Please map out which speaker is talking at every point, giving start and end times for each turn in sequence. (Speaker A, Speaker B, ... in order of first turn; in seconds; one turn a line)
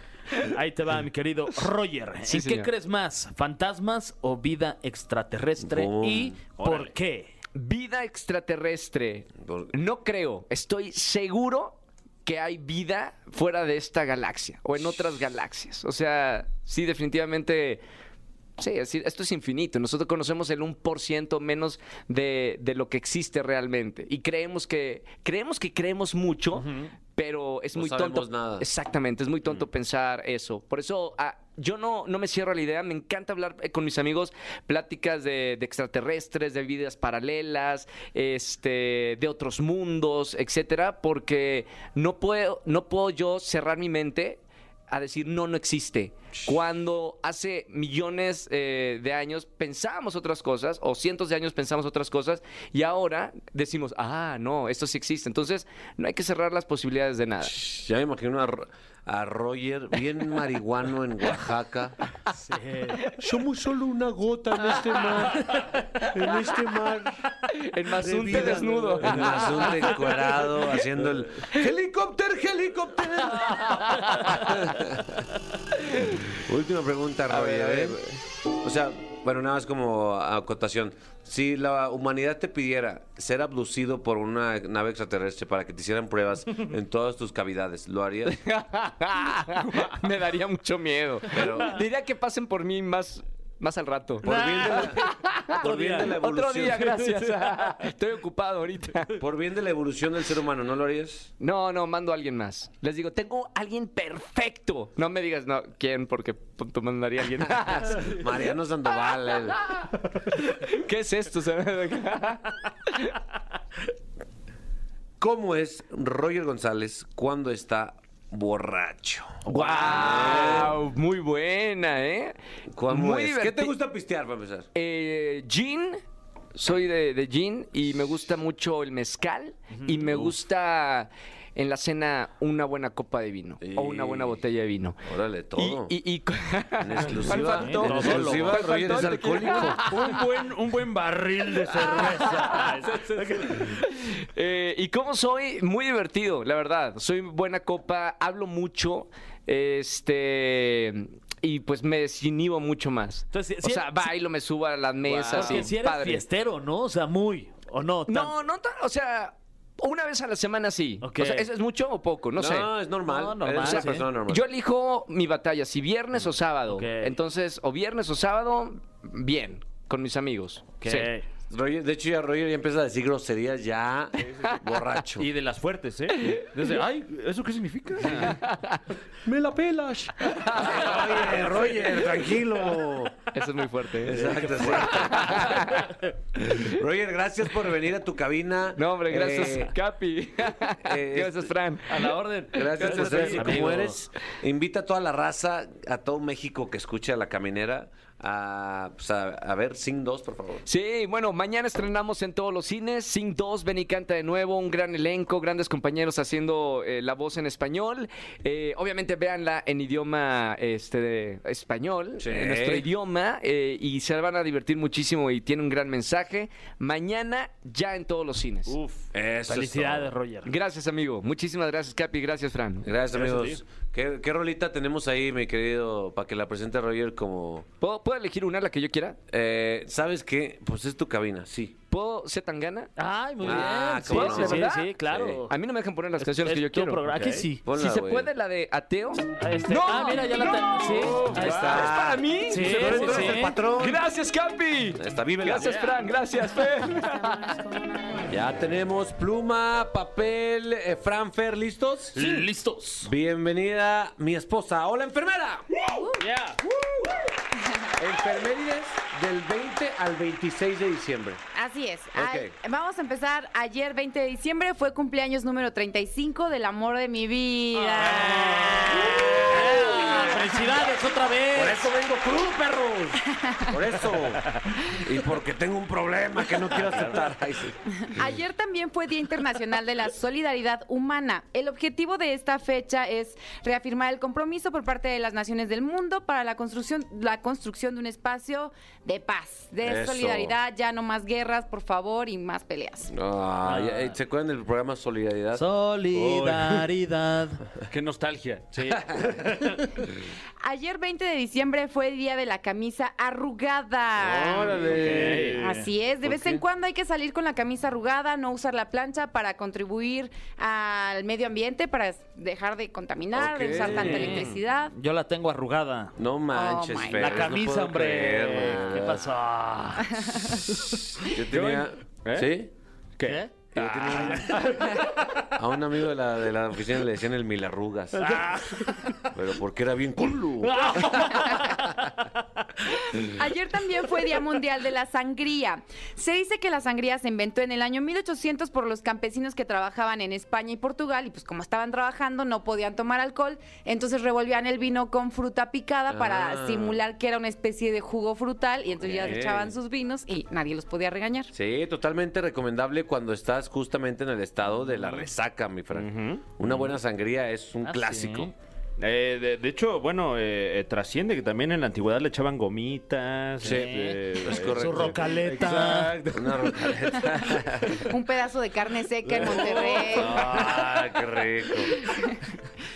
Speaker A: 0.4-7.3
Speaker B: 2.3-2.7
Speaker C: 5.6-6.4
Speaker D: 6.6-6.9
Speaker B: 7.5-17.8
Speaker C: 9.4-9.7
Speaker B: 18.6-57.6
Speaker C: 27.8-28.7
Speaker C: 57.4-62.0
Speaker A: 62.3-63.1
Speaker C: 63.2-67.2
Speaker B: 67.5-70.1
Speaker C: 68.0-75.2
Speaker B: 73.5-74.5
Speaker B: 75.8-76.0
Speaker C: 76.2-78.0
Speaker B: 77.3-78.2
Speaker C: 78.6-88.4
Speaker B: 88.3-99.2
Speaker C: 91.3-91.8
Speaker C: 94.2-96.9
Speaker A: 94.3-95.1
Speaker A: 95.6-96.2
Speaker C: 99.2-101.3
Speaker B: 101.4-108.2
Speaker C: 107.5-109.7
Speaker B: 109.7-113.2
Speaker C: 115.2-120.8
Speaker B: 119.5-122.4
Speaker A: 119.5-120.5
Speaker C: 122.7-124.7
Speaker B: 122.9-123.7
Speaker B: 124.8-126.0
Speaker B: 126.5-135.0
Speaker C: 133.6-134.4
Speaker C: 135.0-135.9
Speaker B: 135.6-140.2
Speaker C: 136.8-139.8
Speaker A: 137.3-138.7
Speaker D: 137.8-138.5
Speaker D: 139.7-143.6
Speaker A: 141.7-143.8
Speaker B: 143.6-156.2
Speaker A: 153.3-154.1
Speaker A: 155.1-158.3
Speaker B: 158.1-162.7
Speaker A: 161.0-161.5
Speaker C: 162.4-164.4
Speaker A: 163.1-164.1
Speaker B: 163.5-171.1
Speaker A: 166.7-167.1
Speaker A: 170.8-171.3
Speaker C: 171.5-175.3
Speaker D: 175.2-178.4
Speaker B: 176.2-176.4
Speaker B: 178.4-178.8
Speaker C: 179.2-183.2
Speaker B: 180.4-180.8
Speaker B: 183.3-185.9
Speaker C: 184.0-185.7
Speaker C: 186.3-189.7
Speaker B: 188.8-193.5
Speaker C: 190.8-191.5
Speaker D: 191.9-193.9
Speaker C: 192.5-200.7
Speaker A: 193.0-193.9
Speaker B: 200.7-218.8
Speaker C: 212.2-212.9
Speaker C: 219.1-220.1
Speaker A: 219.5-220.5
Speaker B: 220.4-222.9
Speaker C: 222.8-227.7
Speaker D: 223.1-223.6
Speaker B: 227.8-229.2
Speaker C: 229.3-231.8
Speaker B: 231.9-232.9
Speaker A: 233.0-235.5
Speaker C: 233.4-235.4
Speaker B: 233.4-235.0
Speaker B: 235.5-237.0
Speaker A: 236.2-237.6
Speaker D: 237.1-237.4
Speaker C: 237.6-238.3
Speaker B: 237.7-247.5
Speaker A: 239.4-243.6
Speaker C: 241.3-244.0
Speaker C: 245.0-245.8
Speaker D: 245.6-245.9
Speaker C: 248.3-252.2
Speaker A: 252.2-253.1
Speaker D: 252.2-252.5
Speaker C: 253.0-255.7
Speaker E: 255.9-256.2
Speaker A: 256.2-256.6
Speaker E: 257.6-257.9
Speaker C: 258.0-261.4
Speaker E: 261.5-270.5
Speaker C: 262.1-262.6
Speaker A: 267.9-271.9
Speaker C: 268.9-270.1
Speaker C: 271.5-277.8
Speaker E: 273.4-273.7
Speaker E: 277.9-293.1
Speaker C: 289.8-290.6
Speaker C: 293.1-295.6
Speaker A: 293.6-294.1
Speaker A: 295.5-297.6
Speaker D: 296.1-296.9
Speaker D: 297.9-299.8
Speaker A: 298.8-299.3
Speaker C: 299.1-299.4
Speaker E: 300.6-304.9
Speaker C: 304.2-305.6
Speaker D: 304.6-305.8
Speaker A: 304.8-305.8
Speaker E: 305.6-314.9
Speaker C: 306.2-306.6
Speaker C: 313.4-314.5
Speaker D: 313.6-314.6
Speaker A: 313.9-316.1
Speaker C: 316.2-319.3
Speaker E: 316.5-317.5
Speaker A: 317.1-320.5
Speaker E: 320.1-320.6
Speaker C: 321.2-322.7
Speaker D: 321.5-322.5
Speaker D: 323.2-324.6
Speaker A: 323.2-325.0
Speaker C: 323.7-328.4
Speaker A: 328.2-329.3
Speaker C: 329.3-331.7
Speaker A: 330.6-332.1
Speaker E: 332.9-351.5
Speaker C: 346.1-347.0
Speaker C: 349.0-349.8
Speaker C: 351.5-358.5
Speaker D: 355.9-356.7
Speaker A: 357.8-358.5
Speaker D: 359.0-366.5
Speaker C: 363.6-368.1
Speaker A: 363.6-366.2
Speaker E: 368.0-370.4
Speaker D: 369.3-371.1
Speaker A: 369.8-370.9
Speaker C: 370.2-371.9
Speaker E: 372.0-372.4